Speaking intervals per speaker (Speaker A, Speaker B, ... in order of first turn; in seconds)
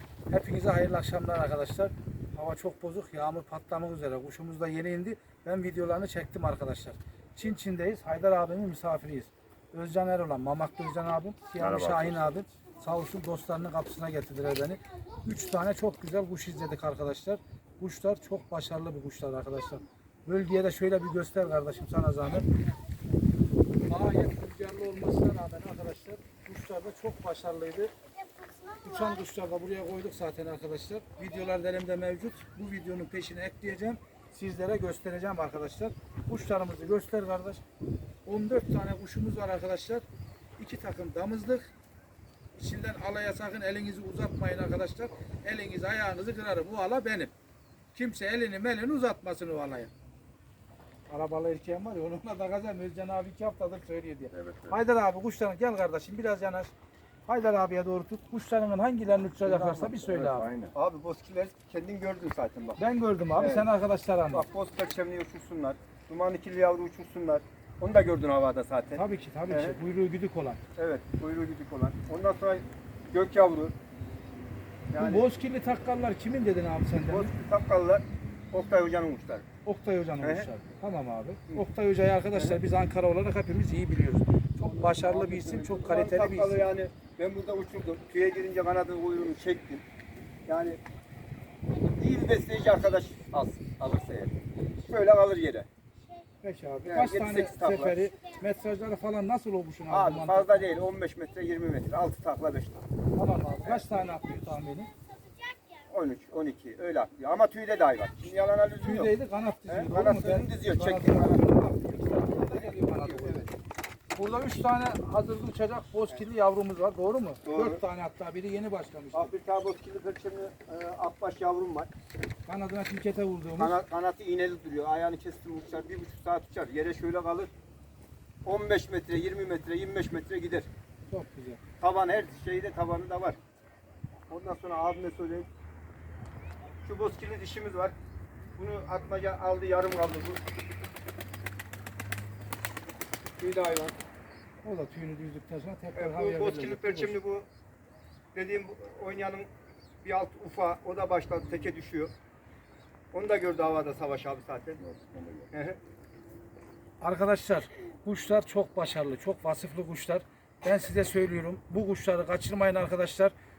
Speaker A: 0.3-22.5, 23.9-27.9, 28.8-37.6, 38.3-40.0, 40.6-41.7, 42.6-47.3, 47.9-49.9, 51.1-56.7, 57.3-60.5, 62.8-64.5, 69.0-70.6, 75.0-77.3, 79.7-86.6, 96.4-100.7, 103.2-104.9, 108.8-113.5, 114.1-119.3, 122.5-123.8, 131.1-131.6, 144.6-147.2, 157.0-163.3
Speaker B: 11.6-12.2, 54.4-54.7, 59.6-60.7, 154.8-155.5
Speaker C: 60.7-62.8, 63.4-63.7, 64.3-69.8, 70.8-73.8, 74.9-75.3, 77.1-79.5, 80.2-80.5, 82.3-82.6, 84.6-89.8, 90.5-90.8, 92.0-94.3, 94.8-95.7, 96.8-98.0, 99.9-102.8, 103.6-104.0, 105.9-109.1, 109.7-111.5, 112.3-113.5, 117.4-117.8, 119.1-121.9, 123.6-127.5, 128.4-130.7, 131.8-133.4, 134.3-135.5, 136.8-137.9, 138.6-140.4, 143.4-144.0, 145.9-147.5, 148.3-149.5, 150.0-152.1, 153.1-154.8, 155.5-155.8